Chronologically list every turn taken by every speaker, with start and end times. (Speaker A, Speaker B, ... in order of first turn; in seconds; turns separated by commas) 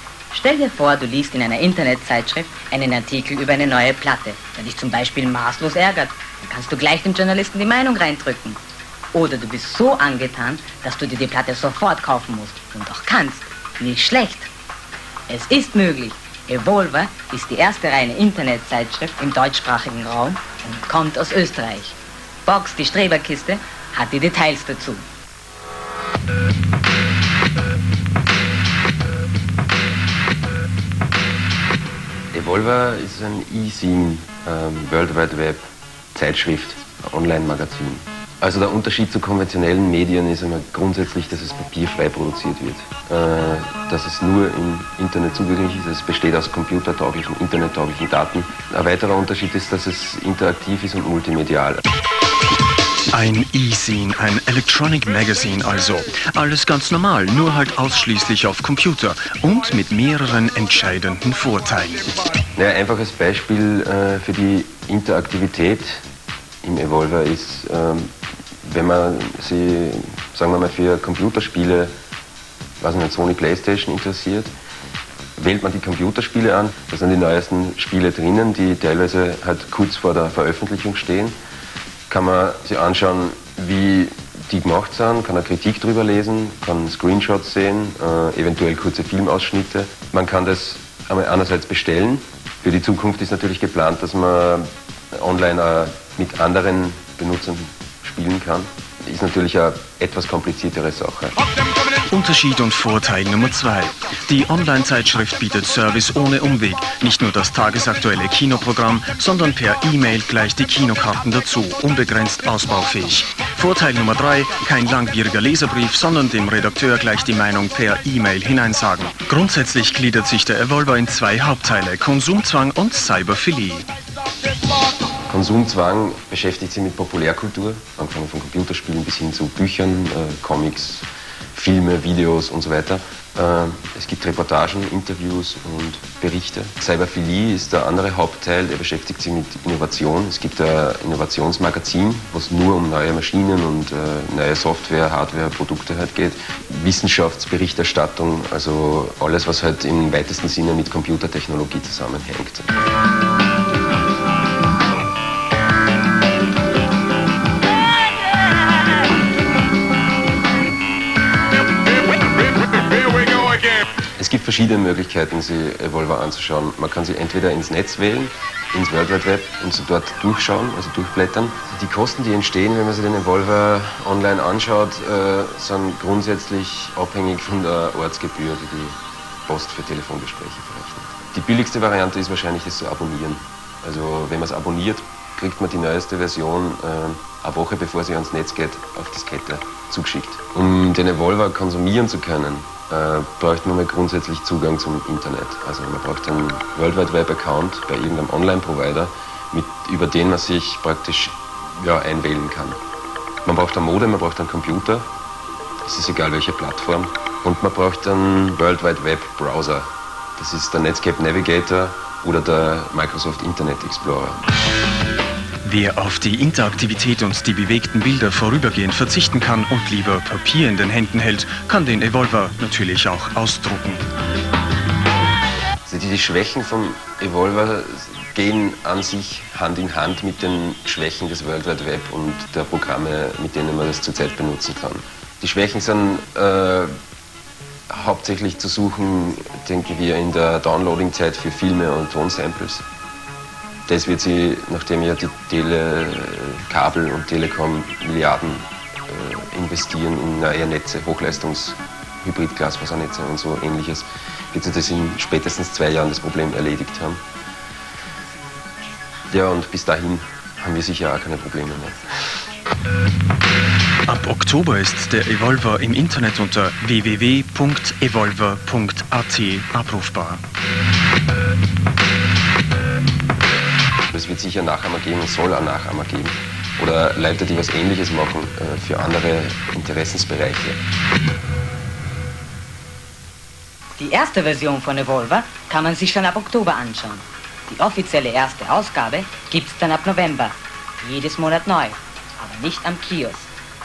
Speaker A: 0.3-8.6, Speaker A: 9.1-14.5, Speaker A: 15.3-25.0, Speaker B: 32.3-35.6, Speaker B: 36.1-51.8, Speaker C: 53.1-62.1, Speaker B: 62.5-66.0, Speaker B: 66.6-68.1, Speaker B: 68.6-71.9, Speaker B: 72.8-74.5, Speaker B: 75.4-81.3, Speaker B: 82.1-101.3, Speaker C: 102.1-123.9, Speaker B: 125.3-152.7, Speaker B: 164.2-202.8, Speaker B: 203.4-205.1, Speaker B: 205.8-209.8, Speaker B: 210.4-214.4, Speaker C: 215.6-224.0, Speaker B: 225.8-236.9, Speaker B: 237.9-242.8, Speaker B: 243.9-257.2, Speaker B: 259.3-262.2, Speaker C: 264.1-270.4, Speaker B: 274.1-280.8, Speaker A: 284.0-293.5